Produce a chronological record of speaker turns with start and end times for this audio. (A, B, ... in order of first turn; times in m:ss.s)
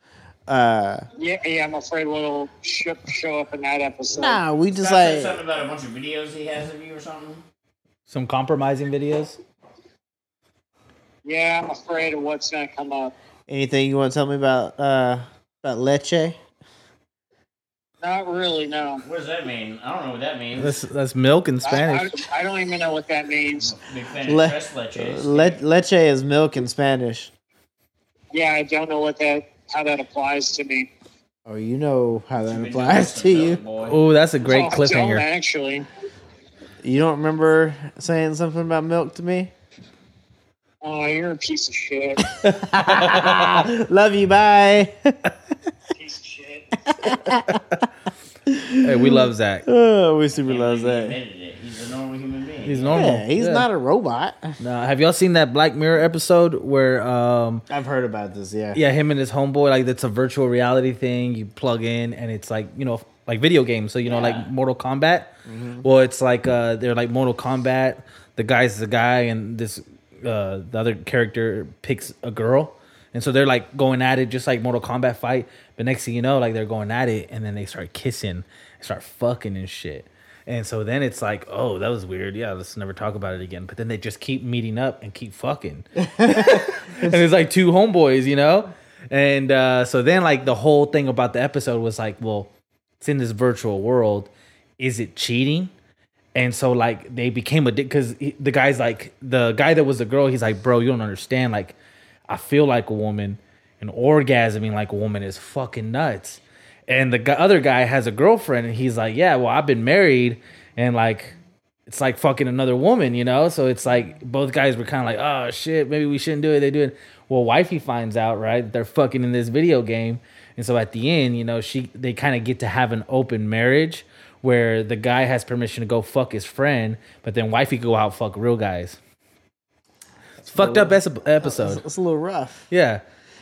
0:00.5-0:01.1 A
0:01.2-0:04.4 B
0:04.1-0:05.4 A
0:04.7-0:07.4 C
0:08.1-0:09.4 D
0:11.2-0:13.1 B
0:13.5-0:16.4 A
0:18.0-0:19.0 B
0:19.0-0:20.8 C
0:20.6-0:22.1 D
0:21.6-0:23.7 B
0:23.6-0:25.6 C
0:24.2-0:27.3 A
0:28.3-0:30.9 B
0:31.5-0:33.6 A
0:32.4-0:34.0 C
0:33.9-0:35.2 D
0:34.4-0:35.9 B
0:36.8-0:39.5 A
0:40.8-0:42.3 B
0:42.4-0:43.6 D
0:42.4-0:45.3 A
0:46.0-0:46.7 B
0:46.9-0:47.6 A
0:48.5-0:51.2 A
0:48.8-0:49.7 D
0:50.3-0:53.1 C
0:52.6-0:53.7 D
0:52.9-0:54.6 A
0:54.6-0:57.6 D
0:57.7-0:58.8 A
0:58.7-1:05.3 D
1:04.0-1:04.5 C
1:05.5-1:05.9 A
1:05.8-1:32.5 D
1:26.1-1:27.2 A
1:33.0-1:35.7 D
1:36.3-1:41.8 D
1:42.3-1:51.4 D
1:51.9-2:09.0 D
2:10.4-2:11.8 D
2:10.4-2:12.7 A
2:12.7-2:13.0 D